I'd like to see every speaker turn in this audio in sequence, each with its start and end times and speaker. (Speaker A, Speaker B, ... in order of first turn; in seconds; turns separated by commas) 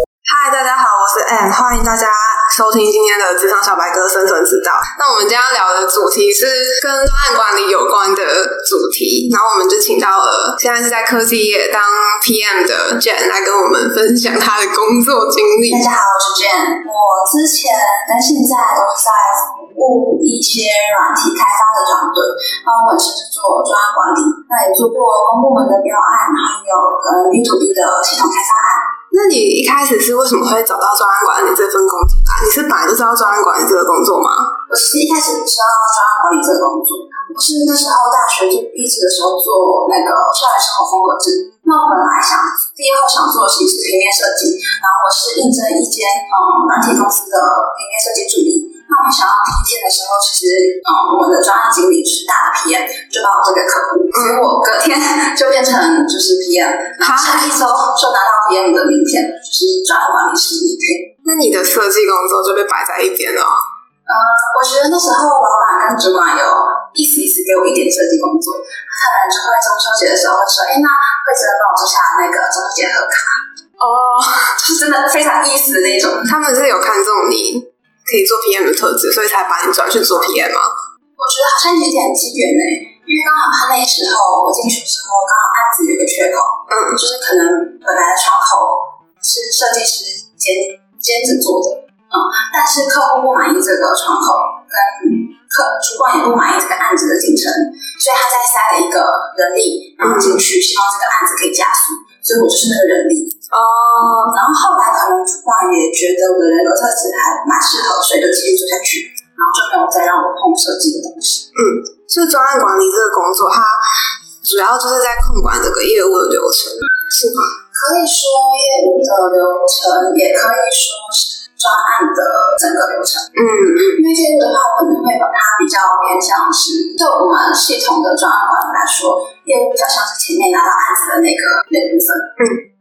Speaker A: 0.2-15.9, Speaker B: 15.7-28.9, Speaker A: 29.1-34.5, Speaker B: 34.7-61.1, Speaker A: 54.1-54.5, Speaker A: 57.0-57.5, Speaker A: 61.2-63.5, Speaker B: 64.1-73.4, Speaker A: 73.8-74.6, Speaker B: 74.6-76.3, Speaker A: 76.3-80.7, Speaker B: 81.2-103.3, Speaker A: 86.7-87.0, Speaker A: 100.0-100.4, Speaker A: 103.5-104.3, Speaker B: 104.3-111.5, Speaker A: 111.5-113.8, Speaker A: 114.4-117.5, Speaker B: 117.6-123.3, Speaker A: 123.3-124.0, Speaker B: 123.9-132.3